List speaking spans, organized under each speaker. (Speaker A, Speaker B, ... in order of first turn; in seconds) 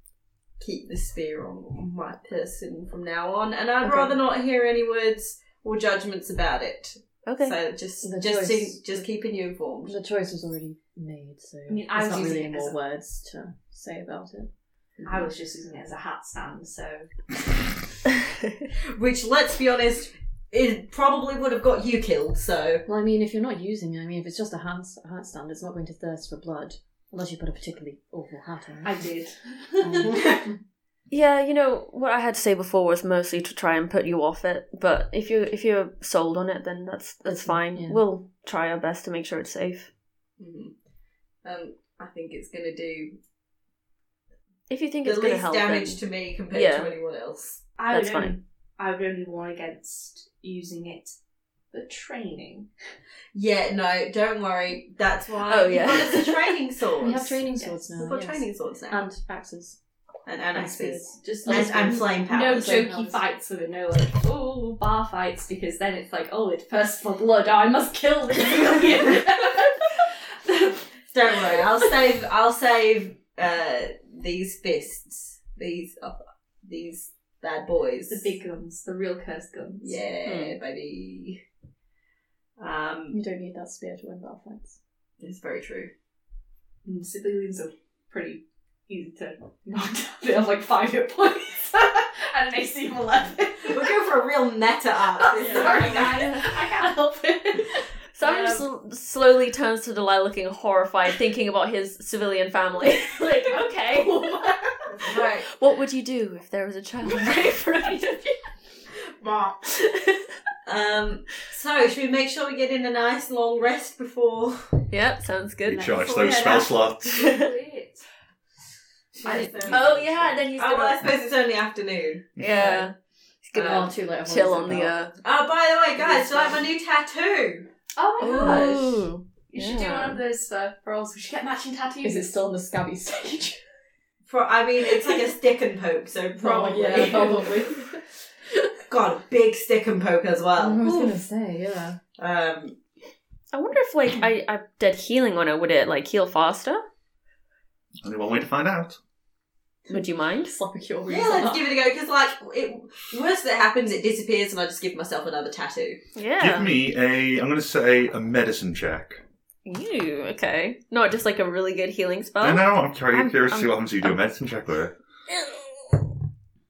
Speaker A: 0.6-10.0, 18.9-22.9, 40.4-40.7, 41.4-43.2, 45.0-47.6, 53.3-59.1, 60.2-62.8, 71.1-78.3, 79.8-81.4, 82.6-83.2, 85.2-85.9, 93.6-96.3, 98.2-98.6, 105.0-105.5, 109.2-109.5, 110.7-114.8, 119.1-122.8, 123.5-123.9, 125.2-127.7, 128.2-128.9, 134.2-137.5, 138.9-141.1, 142.2-142.8, 151.1-156.0
Speaker B: 3.8-4.1, 7.2-7.5, 31.1-39.9, 44.7-46.0, 46.5-46.9, 47.9-48.4, 55.5-56.5, 80.2-80.5, 96.1-96.4, 98.1-104.2, 105.5-108.3, 109.7-110.2, 114.9-116.1, 119.7-121.1, 122.4-125.1, 128.2-130.2, 143.5-146.8, 149.9-150.6, 156.2-156.7, 159.7-164.2, 165.3-166.1
Speaker C: 8.0-9.1, 9.8-14.5, 22.9-29.0, 29.8-30.5, 37.2-38.0, 57.0-59.8, 60.5-63.2, 83.1-84.8, 95.5-95.8, 123.6-125.0, 126.0-126.6, 132.0-133.6, 136.4-138.0, 140.6-142.0, 149.9-151.6
Speaker D: 11.7-12.8, 15.0-17.1, 28.8-30.1, 47.8-51.1, 51.7-52.7, 61.2-70.8, 78.1-80.0, 86.8-94.0, 95.2-98.5, 103.5-104.7, 107.1-108.0, 115.8-118.0, 119.2-120.0, 128.0-128.9, 129.5-132.4, 136.9-137.7
Speaker E: 115.6-117.3, 122.4-122.7, 148.0-149.0, 156.4-159.2, 162.4-164.9